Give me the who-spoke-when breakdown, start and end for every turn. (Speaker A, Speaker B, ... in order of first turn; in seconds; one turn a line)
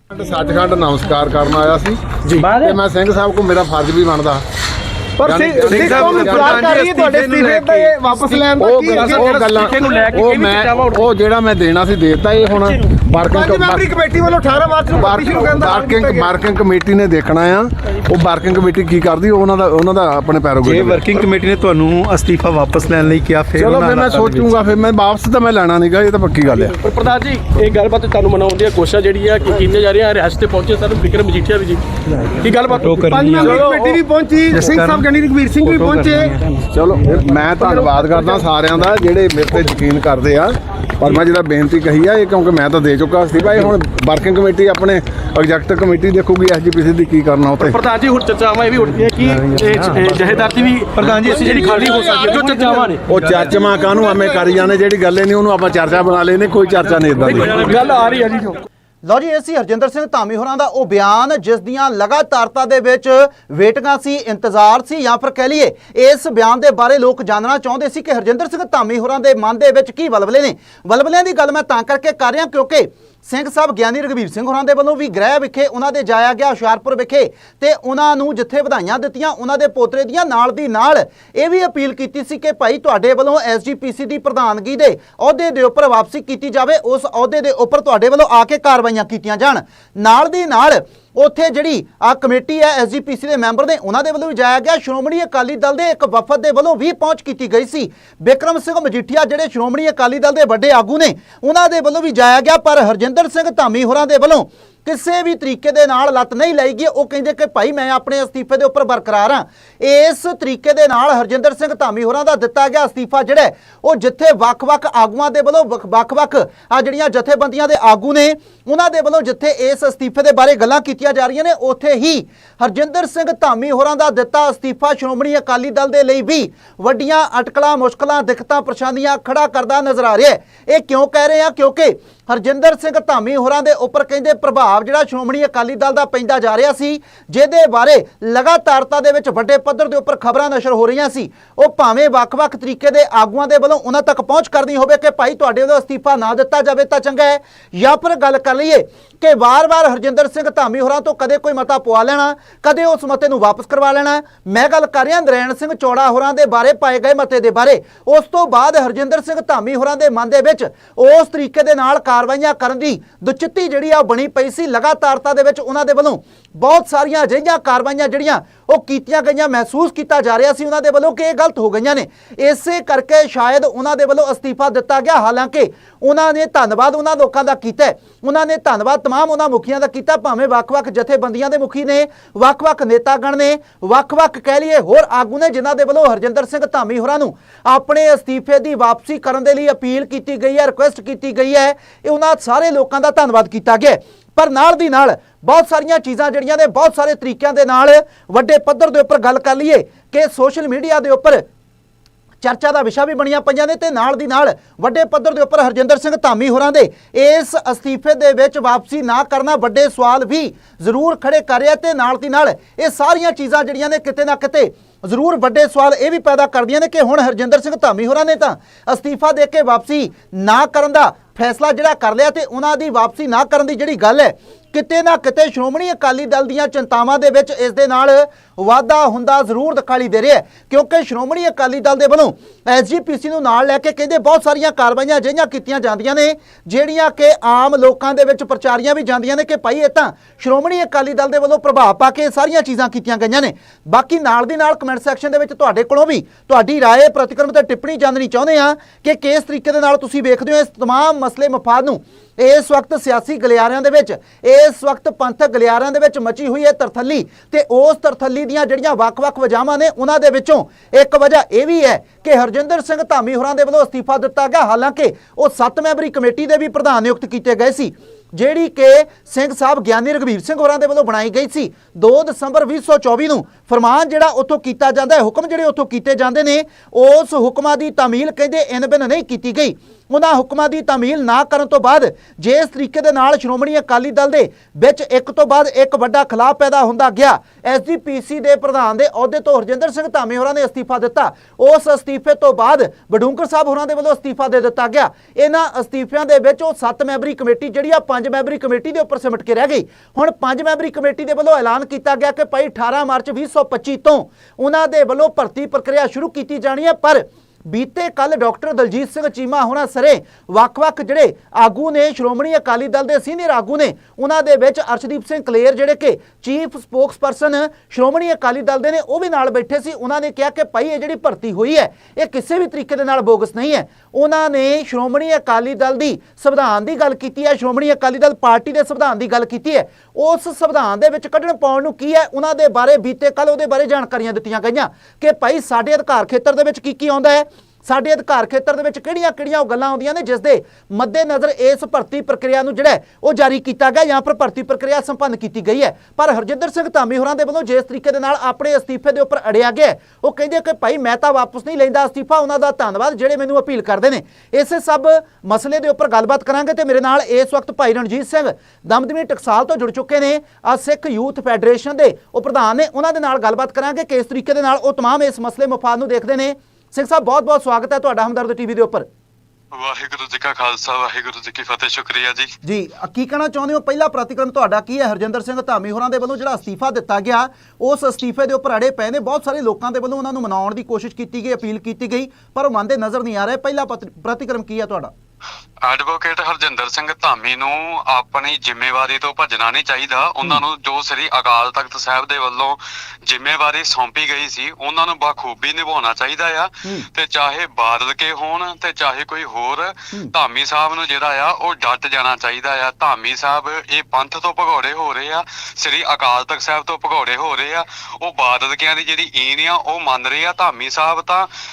Speaker A: 0.1-4.4
Speaker B: 2.2-2.5
Speaker A: 5.2-7.1
Speaker C: 5.2-9.7
Speaker B: 5.2-11.0
Speaker A: 8.2-14.1
Speaker C: 13.3-16.3
Speaker A: 14.9-21.2
Speaker D: 20.6-24.5
Speaker A: 23.6-26.8
Speaker B: 26.8-34.8
Speaker D: 32.7-33.7
Speaker C: 33.0-36.3
Speaker D: 34.5-36.4
Speaker A: 36.7-47.8
Speaker B: 37.6-38.4
Speaker B: 47.6-53.0
Speaker D: 49.6-50.0
Speaker A: 51.0-57.9
Speaker B: 57.3-58.6
Speaker E: 59.0-201.4
Speaker E: 202.4-369.1
Speaker F: 369.7-372.6
Speaker E: 372.6-385.1
Speaker F: 385.8-411.5